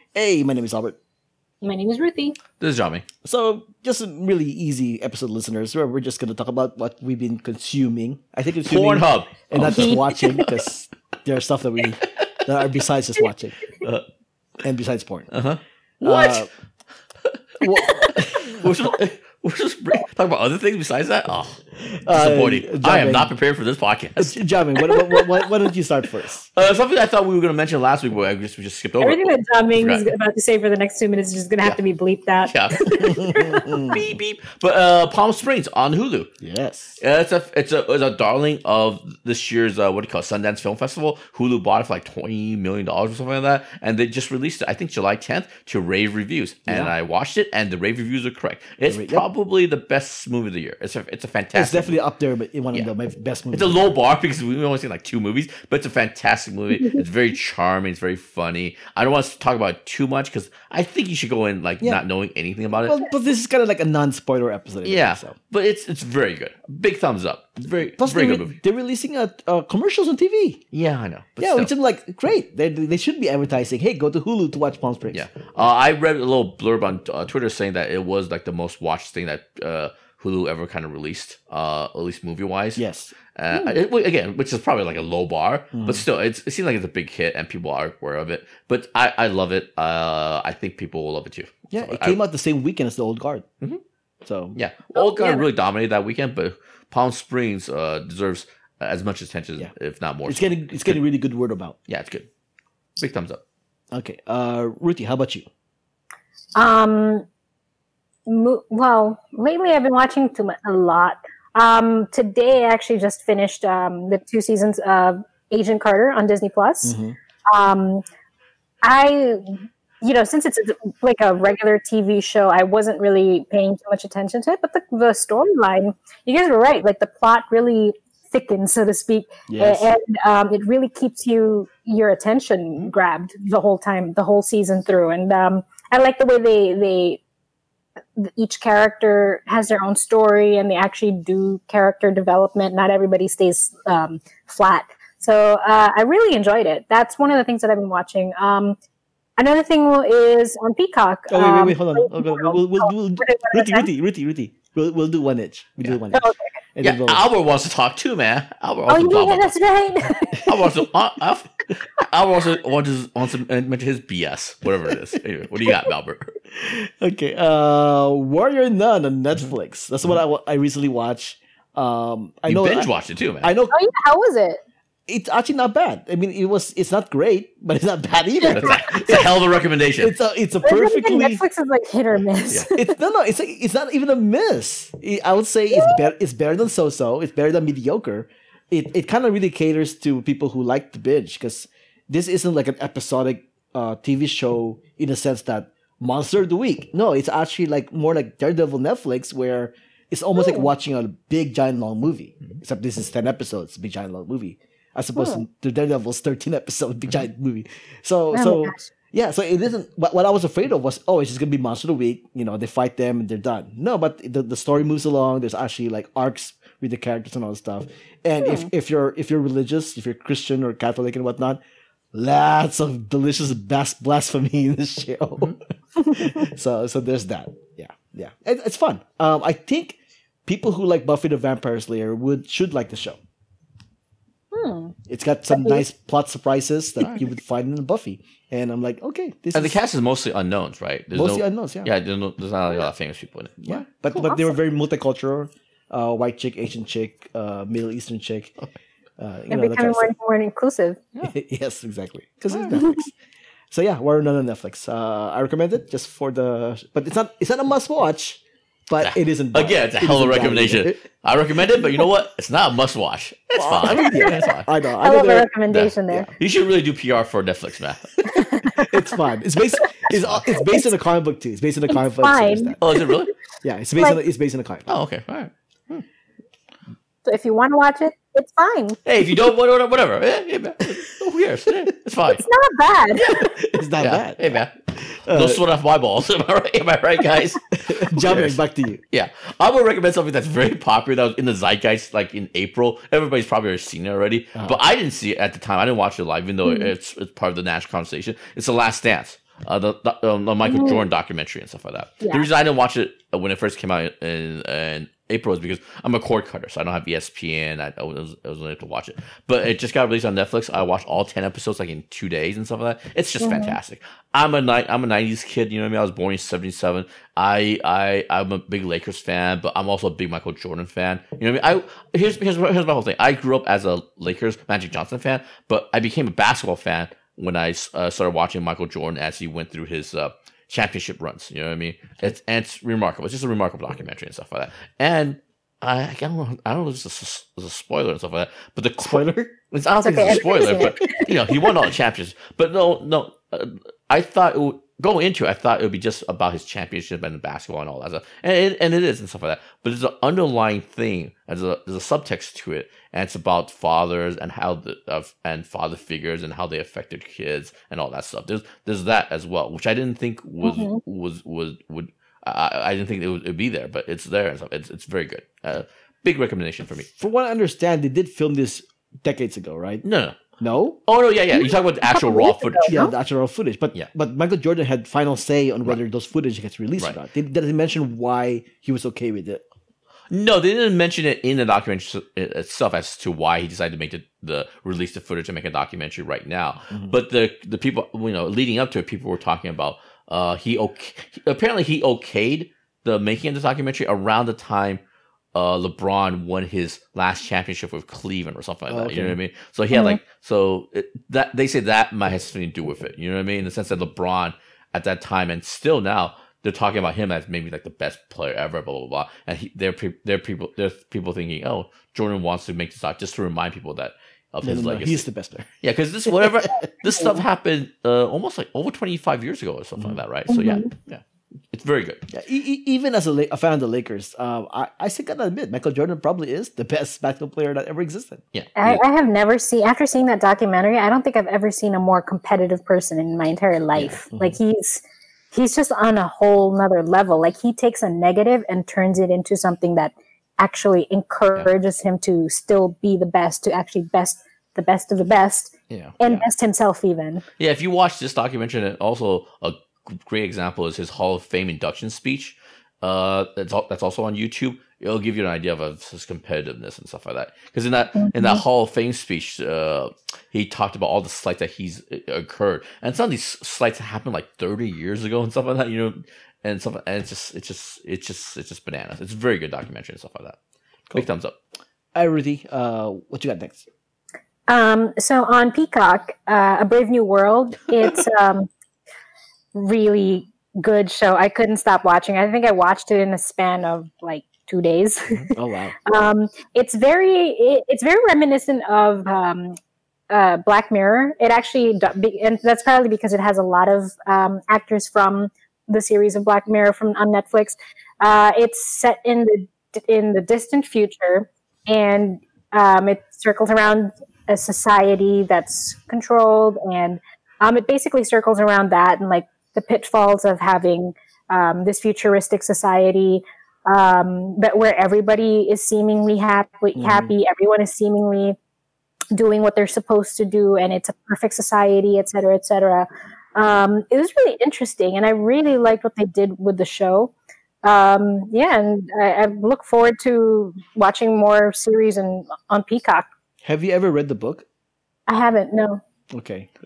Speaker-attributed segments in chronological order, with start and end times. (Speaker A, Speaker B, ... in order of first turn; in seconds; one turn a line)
Speaker A: 0.1-1.0
Speaker B: 1.6-2.4
Speaker C: 2.6-3.0
Speaker A: 3.2-13.6
Speaker C: 8.7-10.5
Speaker B: 9.7-10.4
Speaker A: 14.6-15.3
Speaker C: 15.3-16.5
Speaker A: 16.0-16.5
Speaker C: 17.2-24.4
Speaker A: 17.6-18.9
Speaker A: 21.9-23.3
Speaker A: 24.2-26.5
Speaker C: 26.5-30.0
Speaker B: 29.0-33.9
Speaker C: 32.5-32.9
Speaker A: 33.0-34.0
Speaker C: 33.9-36.3
Speaker A: 36.4-37.0
Speaker C: 37.0-52.0
Speaker A: 46.7-46.9
Speaker A: 48.9-49.2
Speaker A: 51.5-53.9
Speaker C: 53.5-63.0
Speaker A: 62.8-65.3
Speaker C: 64.8-68.6
Speaker A: 68.0-70.6
Speaker C: 70.7-71.7
Speaker A: 71.4-75.2
Speaker C: 75.1-82.8
Speaker A: 82.8-83.1
Speaker C: 83.3-92.2
Speaker A: 85.7-86.0
Speaker A: 91.7-93.5
Speaker A: 94.2-94.6
Speaker C: 94.5-101.0
Speaker B: 95.0-95.4
Speaker A: 100.2-101.8
Speaker C: 101.9-102.3
Speaker C: 103.0-103.4
Speaker A: 103.9-105.5
Speaker B: 106.5-107.2
Speaker B: 108.3-118.0
Speaker A: 116.8-117.2
Speaker B: 118.8-137.2
Speaker A: 129.5-129.9
Speaker B: 138.2-148.8
Speaker B: 149.4-153.9
Speaker A: 151.3-157.2
Speaker B: 156.1-156.4
Speaker C: 156.8-159.5
Speaker B: 158.9-160.5
Speaker C: 160.3-166.3
Speaker A: 166.6-172.9
Speaker C: 172.5-173.5
Speaker A: 173.4-173.7
Speaker B: 173.7-174.6
Speaker A: 175.1-179.4
Speaker B: 178.4-179.1
Speaker C: 178.5-180.1
Speaker A: 180.0-181.4
Speaker B: 180.6-182.9
Speaker A: 182.6-221.6
Speaker B: 200.3-200.7
Speaker B: 205.2-205.4
Speaker B: 208.3-208.9
Speaker B: 218.4-218.7
Speaker A: 222.1-233.2
Speaker B: 226.0-226.4
Speaker B: 234.5-234.9
Speaker A: 235.1-239.8
Speaker B: 235.5-235.8
Speaker C: 237.0-237.3
Speaker C: 239.5-243.8
Speaker A: 241.1-241.9
Speaker A: 243.6-248.5
Speaker B: 244.1-244.5
Speaker A: 249.2-250.1
Speaker B: 249.5-251.0
Speaker A: 251.2-253.1
Speaker C: 252.5-252.8
Speaker A: 253.7-261.0
Speaker C: 259.0-264.7
Speaker A: 263.5-265.5
Speaker B: 264.0-264.3
Speaker B: 265.0-266.3
Speaker C: 265.7-268.2
Speaker B: 268.3-268.9
Speaker A: 268.8-272.8
Speaker C: 270.1-270.4
Speaker B: 271.9-273.1
Speaker C: 272.8-273.3
Speaker A: 273.6-274.9
Speaker C: 274.9-276.0
Speaker B: 277.2-279.0
Speaker C: 279.1-282.4
Speaker B: 282.4-283.5
Speaker C: 283.2-283.5
Speaker A: 283.4-285.6
Speaker C: 284.0-284.7
Speaker C: 285.3-288.6
Speaker A: 287.8-289.0
Speaker C: 289.1-367.1
Speaker B: 296.6-296.9
Speaker B: 300.6-301.0
Speaker B: 302.2-302.5
Speaker B: 313.4-313.8
Speaker A: 339.0-339.5
Speaker B: 340.0-341.5
Speaker A: 340.2-340.9
Speaker B: 360.6-361.0
Speaker A: 367.2-370.0
Speaker C: 370.0-370.4
Speaker A: 370.6-371.0
Speaker C: 371.1-373.0
Speaker B: 371.5-373.1
Speaker A: 372.9-379.6
Speaker C: 380.3-395.0
Speaker A: 386.9-387.1
Speaker C: 395.5-415.2
Speaker A: 398.9-399.4
Speaker B: 399.9-400.2
Speaker A: 414.6-415.7
Speaker C: 415.8-422.2
Speaker B: 420.5-420.9
Speaker A: 422.3-428.4
Speaker C: 428.5-429.0
Speaker B: 428.8-447.4
Speaker A: 434.3-434.6
Speaker C: 445.9-446.1
Speaker C: 447.6-470.6
Speaker B: 458.1-458.6
Speaker C: 471.1-471.5
Speaker A: 472.1-473.8
Speaker B: 474.7-478.7
Speaker B: 479.7-489.8
Speaker A: 485.5-485.9
Speaker B: 490.3-518.6
Speaker A: 517.0-517.3
Speaker B: 519.3-527.3
Speaker B: 527.8-533.3
Speaker A: 533.6-534.6
Speaker B: 535.3-536.0
Speaker A: 536.3-536.7